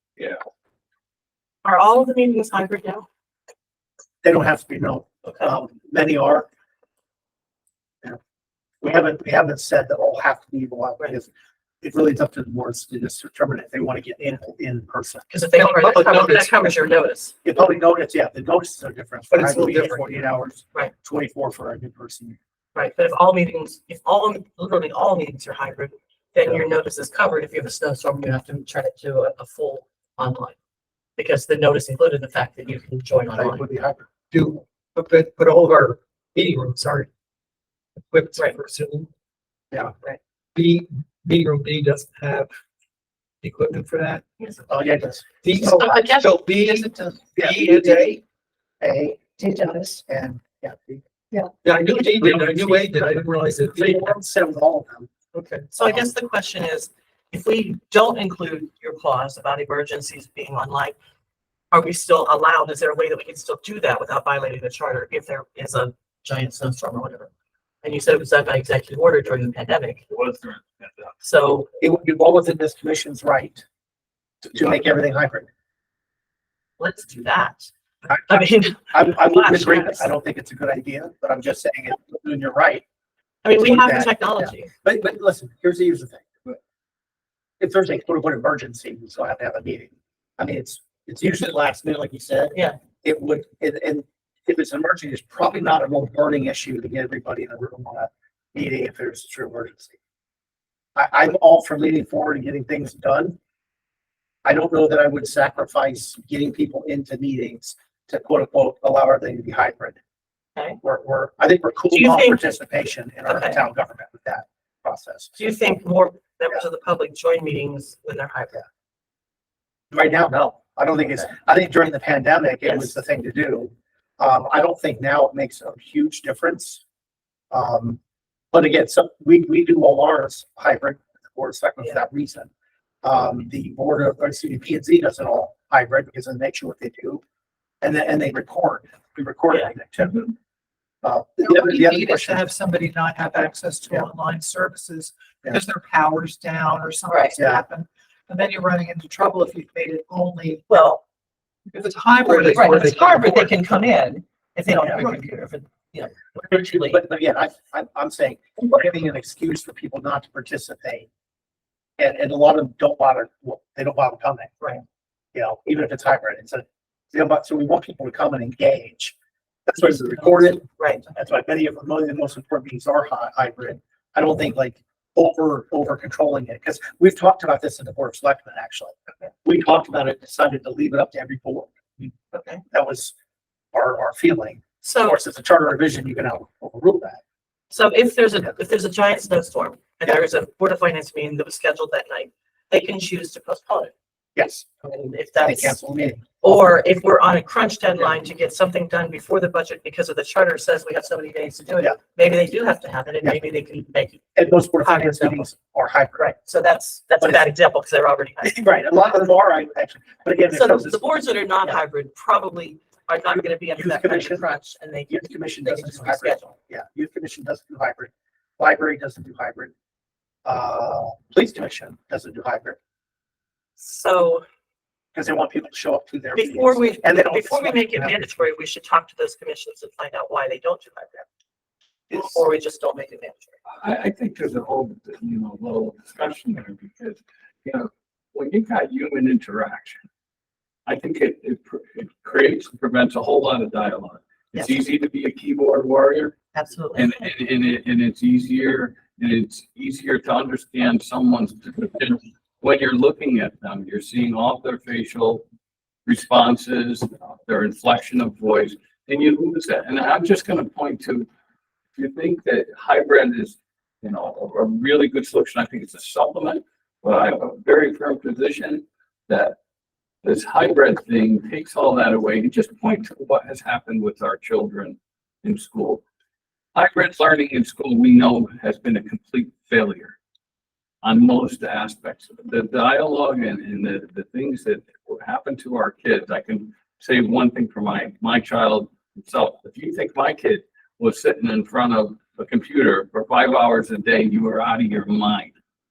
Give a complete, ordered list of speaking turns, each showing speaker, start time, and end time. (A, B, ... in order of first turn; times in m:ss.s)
0:01.6-0:03.1 A
0:04.2-0:06.5 B
0:08.8-0:11.3 B
0:11.8-0:15.3 B
0:15.3-0:17.3 A
0:15.6-0:16.8 C
0:17.4-0:22.4 B
0:19.3-0:20.2 C
0:22.7-0:30.5 A
0:31.2-0:33.6 A
0:33.3-0:34.1 B
0:34.3-0:37.1 C
0:38.1-0:39.1 C
0:40.5-0:42.5 C
0:43.4-0:44.2 C
0:44.4-0:44.6 A
0:44.7-0:45.7 B
0:45.4-0:48.2 C
0:45.7-0:46.3 A
0:46.5-0:48.2 B
0:48.8-0:53.2 B
0:51.6-0:54.1 C
0:53.7-0:55.1 B
0:55.6-1:01.0 A
0:55.8-0:56.1 B
1:01.7-1:07.3 A
1:07.8-1:10.0 A
1:10.1-1:11.1 D
1:11.2-1:11.7 A
1:11.8-1:13.6 B
1:14.4-1:15.5 B
1:16.8-1:17.7 A
1:18.1-1:22.8 B
1:18.2-1:20.1 A
1:23.4-1:24.7 A
1:23.6-1:26.6 B
1:27.6-1:40.0 B
1:41.0-1:43.4 B
1:44.4-1:50.0 B
1:50.8-1:55.3 B
1:51.9-1:52.4 A
1:53.2-1:53.6 A
1:55.4-1:58.6 A
1:59.9-2:06.8 B
2:02.6-2:02.9 A
2:07.5-2:08.0 B
2:08.5-2:12.5 B
2:13.0-2:17.2 B
2:17.8-2:20.3 B
2:21.0-2:22.4 B
2:21.4-2:30.7 C
2:27.1-2:27.4 A
2:27.4-2:27.6 B
2:30.7-2:31.0 A
2:31.7-2:33.6 C
2:32.3-2:37.0 A
2:34.7-2:35.1 B
2:36.5-2:41.1 B
2:42.0-2:44.5 B
2:45.3-2:49.1 B
2:49.7-3:02.2 B
2:50.8-2:51.0 A
3:02.3-3:02.6 A
3:02.7-3:03.1 B
3:03.7-3:07.2 B
3:04.8-3:05.2 A
3:07.7-3:13.9 A
3:14.3-3:14.7 B
3:14.8-3:15.8 A
3:15.4-3:16.7 B
3:16.4-3:24.2 A
3:24.4-3:26.3 B
3:24.8-3:25.5 A
3:26.2-3:28.6 A
3:27.2-3:27.5 B
3:28.4-3:31.0 B
3:30.5-3:36.5 A
3:33.7-3:34.5 B
3:35.1-3:39.7 B
3:40.4-3:42.8 B
3:43.8-3:44.4 A
3:45.1-3:48.4 B
3:46.4-3:51.3 A
3:52.1-3:53.5 A
3:53.7-4:00.0 D
4:00.8-4:06.3 D
4:06.5-4:07.2 A
4:06.9-4:15.4 D
4:16.0-4:21.3 D
4:22.0-4:29.6 D
4:30.2-4:36.0 D
4:36.7-4:40.2 D
4:41.0-4:55.5 D